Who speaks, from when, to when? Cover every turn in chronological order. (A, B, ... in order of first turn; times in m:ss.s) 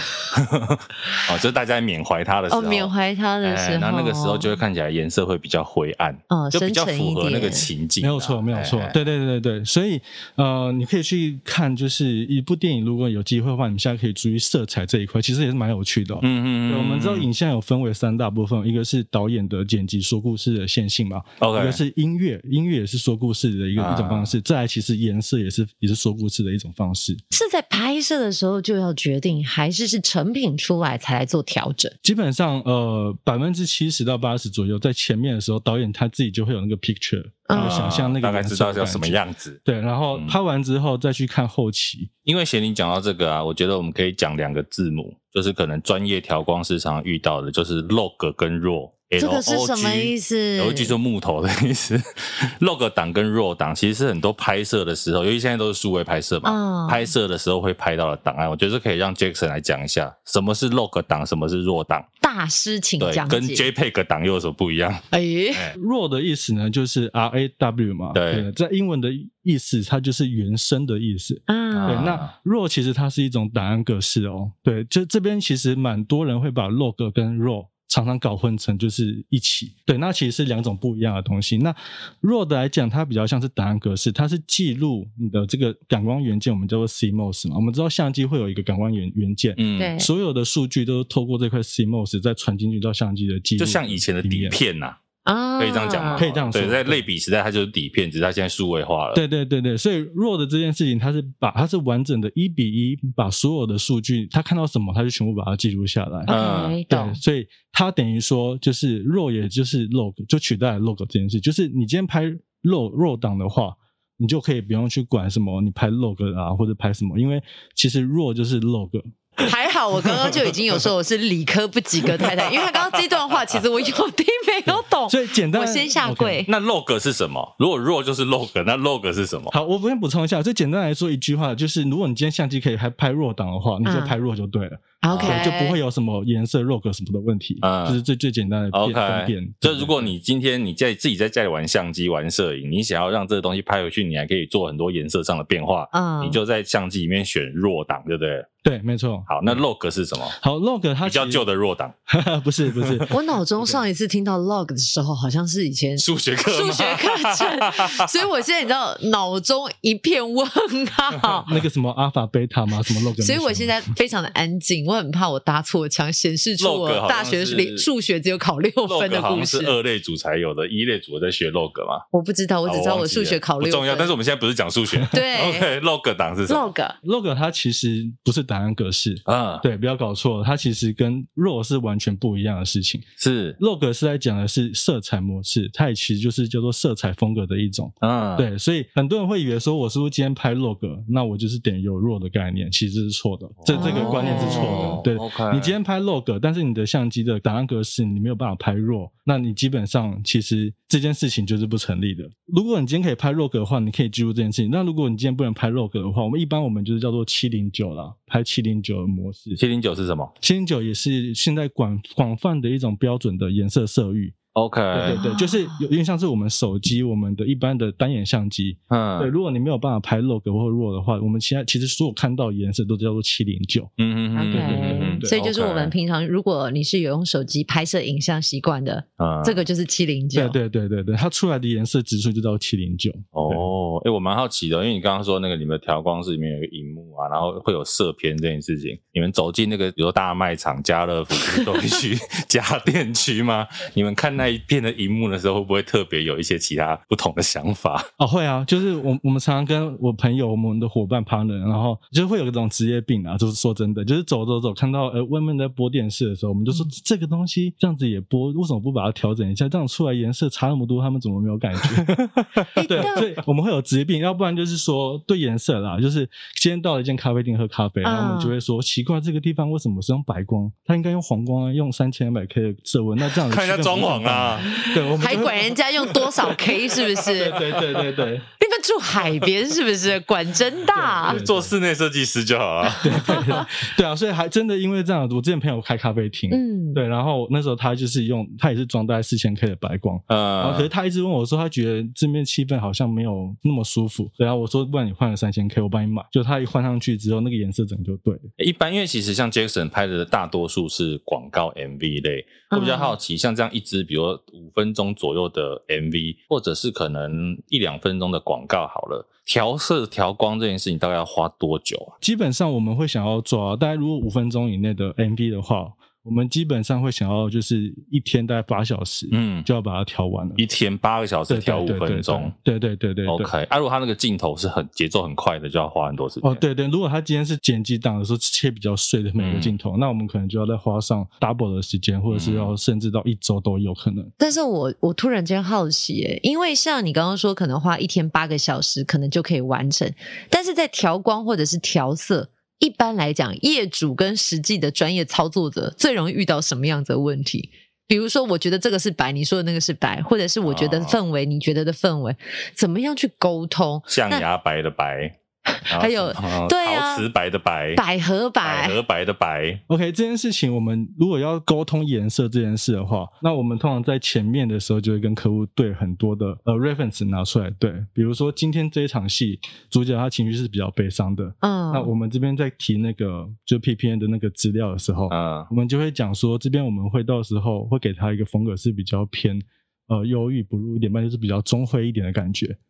0:00.3-0:02.9 A
0:02.5-0:04.6 B
0:03.4-0:09.0 A
0:06.3-0:07.7 B
0:08.0-0:27.2 C
0:16.2-0:17.3 A
0:21.4-0:21.8 A
0:23.8-0:24.3 A
0:27.3-0:31.9 B
0:32.0-0:42.1 C
0:37.5-0:38.0 B
0:37.5-0:39.6 A
0:42.2-1:02.1 A
0:49.2-0:50.9 B
0:56.4-0:57.0 B
1:02.2-1:03.7 B
1:03.0-1:05.7 A
1:05.1-1:05.7 B
1:05.7-1:34.6 C
1:08.1-1:08.5 A
1:11.5-1:12.2 B
1:11.7-1:12.3 A
1:29.6-1:29.9 A
1:29.8-1:30.1 B
1:33.6-1:35.0 A
1:35.3-1:36.3 B
1:35.6-1:39.2 A
1:36.2-1:37.1 C
1:39.1-1:46.4 C
1:46.3-1:47.2 B
1:46.3-1:46.8 A
1:46.9-1:59.5 C
1:59.4-2:06.5 B
2:05.1-2:06.4 C
2:06.5-2:09.5 A
2:09.5-2:20.1 C
2:13.8-2:14.2 B
2:15.0-2:15.8 B
2:15.1-2:15.5 A
2:17.6-2:18.0 A
2:18.7-2:28.5 A
2:25.9-2:26.4 B
2:28.6-2:29.6 C
2:29.3-2:30.4 A
2:30.4-2:31.5 C
2:31.0-2:31.9 A
2:32.1-2:33.1 C
2:32.8-2:33.1 A
2:33.1-2:41.5 B
2:36.0-2:38.2 A
2:41.4-2:43.8 C
2:43.2-2:49.8 B
2:46.6-2:47.9 A
2:48.9-2:52.0 A
2:52.1-2:54.1 B
2:52.7-2:56.7 A
2:55.1-2:55.7 B
2:56.5-2:57.0 B
2:57.0-3:03.0 C
2:59.3-2:59.6 A
3:03.2-3:03.6 A
3:03.6-3:29.6 C
3:08.0-3:08.5 A
3:13.6-3:15.7 A
3:13.7-3:15.0 B
3:29.6-3:30.3 A
3:30.4-3:34.4 C
3:34.5-3:35.2 A
3:34.9-3:43.9 C
3:35.0-3:35.8 B
3:38.9-3:39.3 A
3:44.0-3:46.0 A
3:44.4-3:50.6 B
3:44.5-3:45.3 C
3:49.2-3:49.7 A
3:50.3-3:53.7 C
3:53.3-4:08.1 A
4:08.2-4:35.8 C
4:22.8-4:23.4 B
4:28.0-4:28.6 B
4:33.4-4:34.9 A
4:34.7-4:37.7 B
4:36.2-4:36.8 A
4:37.2-4:38.5 C
4:38.6-4:41.4 B
4:40.9-4:41.7 C
4:41.2-4:43.6 A
4:43.0-4:58.5 C
4:43.1-4:43.7 B
4:46.5-4:47.0 B
4:50.3-4:50.9 A
4:58.6-5:12.1 A
5:02.7-5:03.2 B
5:12.2-5:20.6 C
5:19.3-5:19.7 A
5:20.6-5:22.5 A
5:21.5-5:23.5 C
5:23.3-5:26.6 A
5:26.4-5:34.3 C
5:29.4-5:29.7 A
5:32.3-5:32.7 A
5:34.4-5:54.5 B
5:50.6-5:51.2 A
5:54.1-5:55.4 A
5:55.7-5:57.3 B
5:55.9-5:58.0 A
5:58.0-5:59.0 B
5:58.6-5:59.8 A
5:59.9-6:22.8 C
6:11.6-6:12.1 B
6:15.3-6:15.7 A